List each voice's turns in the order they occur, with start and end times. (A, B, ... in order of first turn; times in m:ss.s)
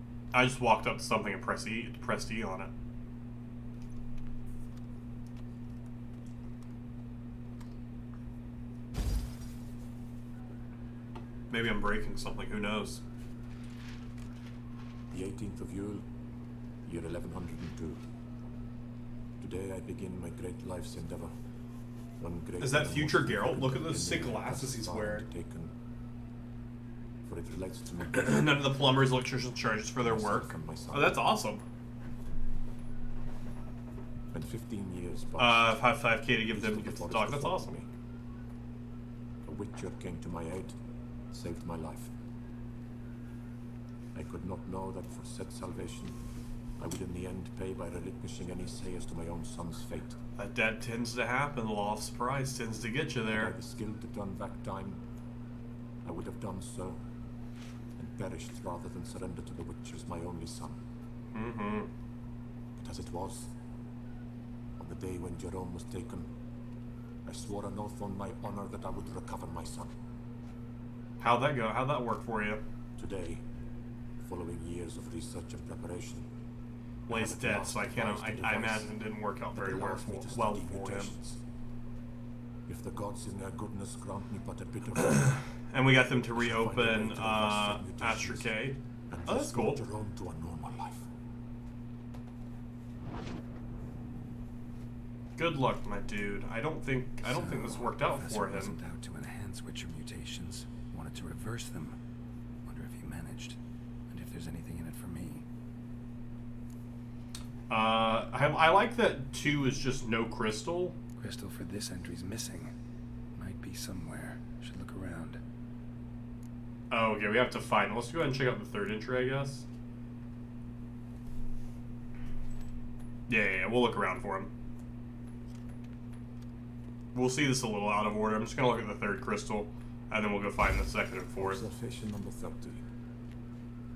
0:00.3-0:02.7 A
0:11.5-0:13.0 A
0:15.1-0:16.0 B
0:16.8-0:18.0 B
0:19.4-0:21.3 B
0:22.2-0:25.7 B
0:22.6-0:25.2 A
0:27.2-0:28.6 B
0:28.1-0:31.6 A
0:30.0-0:31.2 B
0:34.3-0:35.8 B
0:35.4-0:37.7 A
0:36.5-0:37.9 B
0:39.4-0:40.8 B
0:41.3-0:42.1 B
0:44.1-0:46.2 B
0:46.8-0:50.2 B
0:50.4-0:53.5 A
0:53.3-0:55.0 B
0:56.0-0:57.0 B
0:58.0-1:00.8 B
1:01.3-1:01.9 A
1:02.8-1:03.5 B
1:04.8-1:06.3 B
1:07.2-1:09.9 B
1:11.2-1:12.6 A
1:13.0-1:13.4 B
1:14.2-1:16.2 B
1:17.1-1:19.0 B
1:17.1-1:21.1 A
1:19.5-1:21.4 B
1:22.7-1:25.4 B
1:25.1-1:29.8 A
1:26.4-1:31.1 B
1:35.4-1:38.8 A
1:37.2-1:42.0 C
1:42.6-1:45.4 C
1:47.7-1:51.0 A
1:51.2-1:52.7 C
1:53.4-1:55.4 C
1:56.9-1:59.6 A
2:03.3-2:04.5 A
2:07.1-2:11.6 A
2:11.4-2:12.8 B